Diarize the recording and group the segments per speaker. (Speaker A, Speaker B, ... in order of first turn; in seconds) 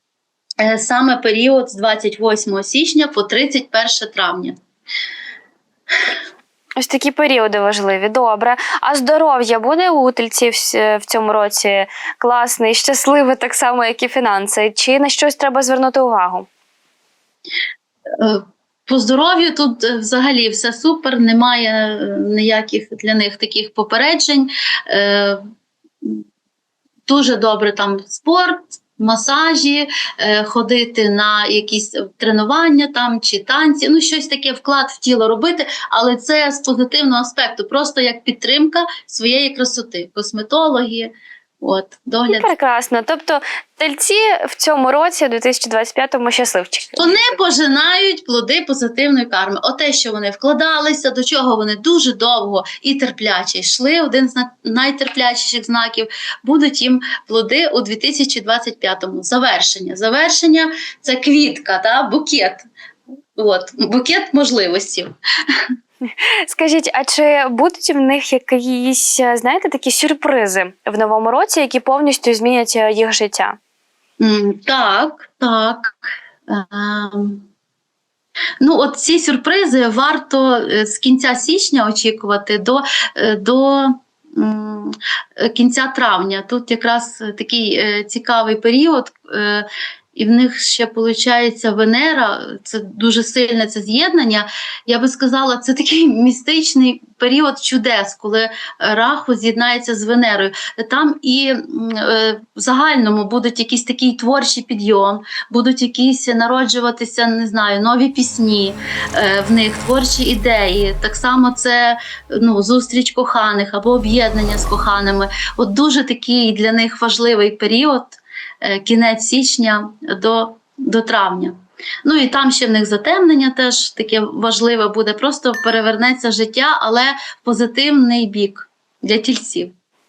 Speaker A: 0.6-4.5, 18.2-25.4, 27.1-42.5, 47.0-62.6, 63.4-65.1, 74.2-75.9, 76.5-77.5, 78.6-129.7
Speaker B: 6.8-16.5, 42.3-47.3, 66.5-73.6